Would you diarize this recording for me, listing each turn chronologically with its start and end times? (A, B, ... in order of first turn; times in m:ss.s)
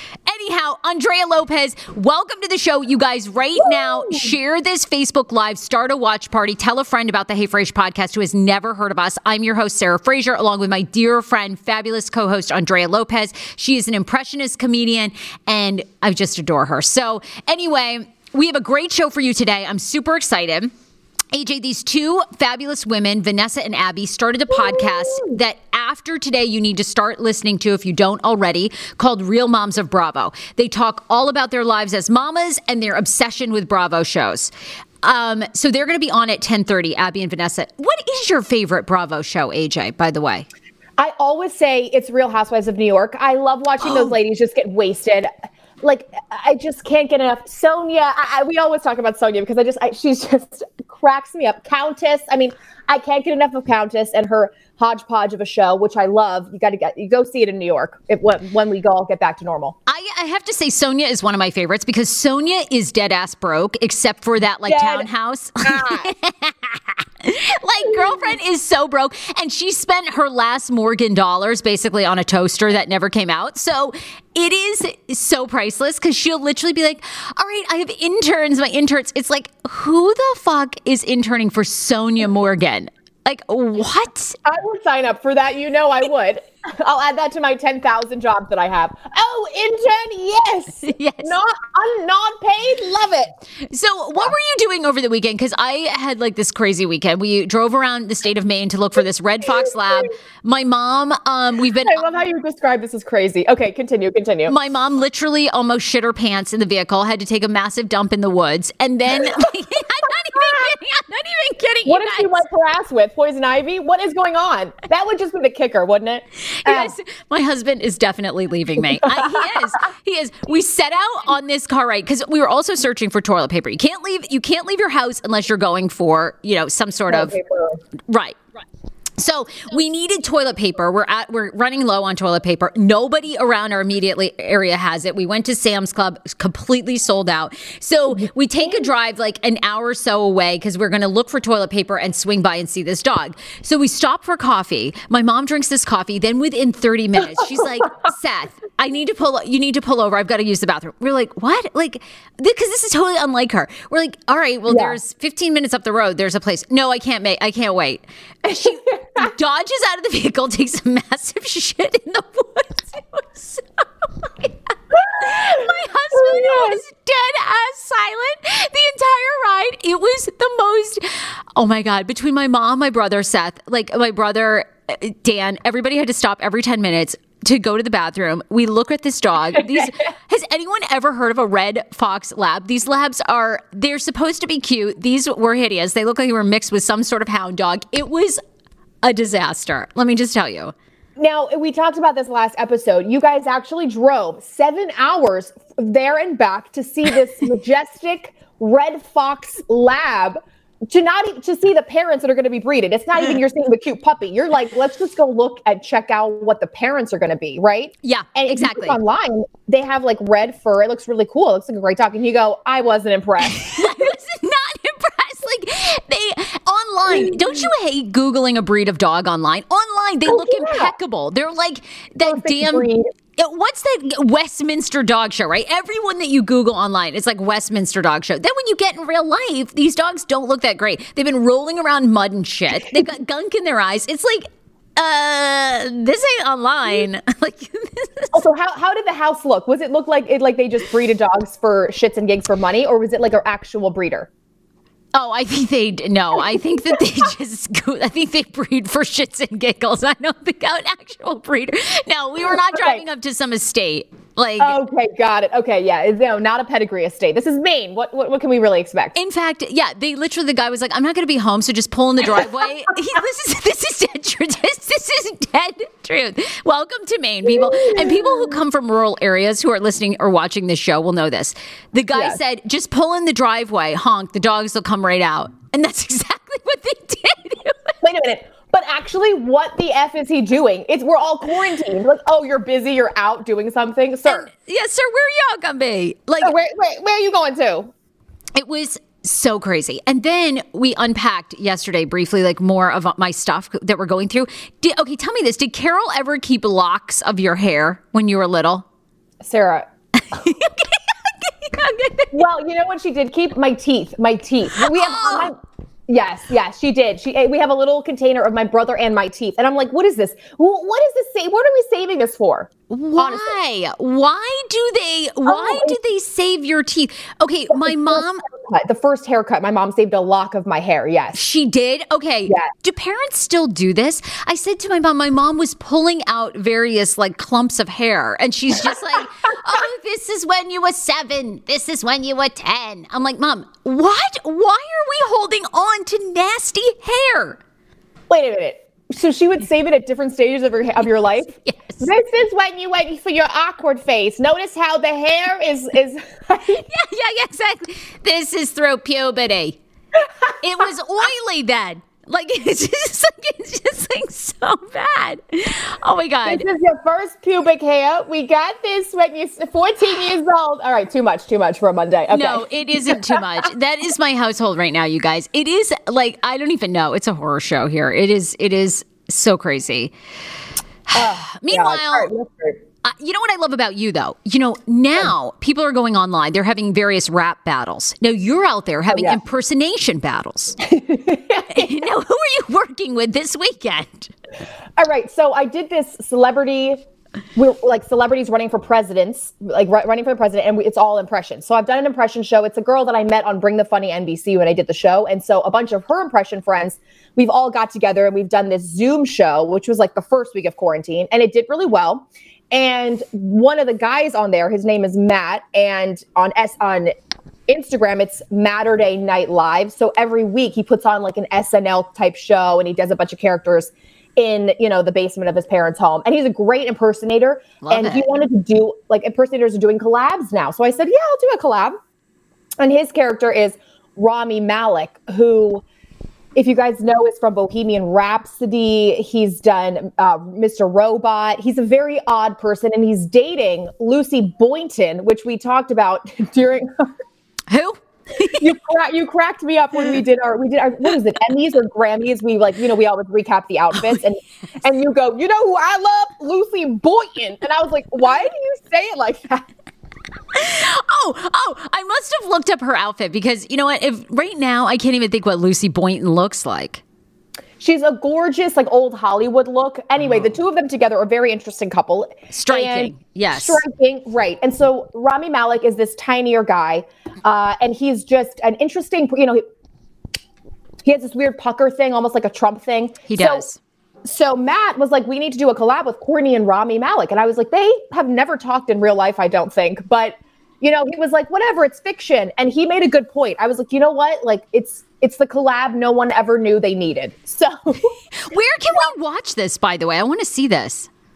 0:00.3-0:20.7 A
0:03.6-0:04.3 B
0:21.3-0:34.5 A
0:24.6-0:25.3 B
0:35.0-0:40.5 A
0:41.0-0:45.3 B
0:45.8-0:59.8 B
0:59.8-1:24.4 A
1:04.6-1:05.1 B
1:05.6-1:06.1 B
1:07.8-1:08.3 B
1:24.4-1:33.3 B
1:30.8-1:31.4 A
1:33.7-1:42.0 A
1:41.8-1:44.5 B
1:44.5-1:52.4 A
1:50.3-1:50.6 B
1:51.8-1:56.9 B
1:56.5-2:07.4 A
1:58.9-1:59.5 B
2:07.1-2:07.8 B
2:08.1-2:08.4 A
2:09.2-3:08.4 A
2:34.7-2:35.0 B
2:38.5-2:39.3 B
2:45.3-2:46.8 B
3:09.0-3:10.7 A
3:11.2-3:34.1 B
3:28.0-3:29.0 A
3:33.6-3:58.4 A
3:37.1-3:37.7 B
3:40.2-3:40.9 B
3:42.2-3:43.1 B
3:58.3-4:04.3 B
4:05.1-4:14.8 A
4:12.7-4:13.0 B
4:14.6-4:19.2 B
4:19.2-4:37.9 A
4:27.5-4:28.6 B
4:38.0-4:44.5 B
4:44.2-4:46.5 A
4:46.4-4:47.9 B
4:48.6-4:58.8 A
4:59.4-4:59.9 B
5:00.2-5:02.4 A
5:02.3-5:13.6 B
5:04.8-5:05.5 A
5:12.9-5:18.4 A
5:15.4-5:16.0 B
5:17.7-5:21.4 B
5:21.3-5:37.6 A
5:38.3-5:46.8 B
5:41.6-5:42.0 A
5:46.8-5:49.8 A
5:50.6-5:56.6 A
5:56.4-6:03.4 B
6:02.3-6:10.1 A
6:11.1-6:12.3 A
6:11.1-6:12.8 B
6:13.0-6:20.8 A
6:19.1-6:19.4 B
6:20.9-6:22.1 B
6:21.7-6:24.3 A
6:25.0-6:27.0 B
6:27.5-6:47.1 B
6:47.7-7:02.0 B
6:57.8-6:58.2 A
7:02.8-7:05.8 B
7:06.5-7:17.1 B
7:17.7-7:18.6 A
7:18.6-7:29.7 B
7:30.5-7:37.0 A
7:37.8-7:49.6 B
7:42.5-7:43.8 A
7:51.0-7:53.7 B
7:53.3-7:53.8 A
7:54.2-8:08.1 B
8:08.5-8:11.1 A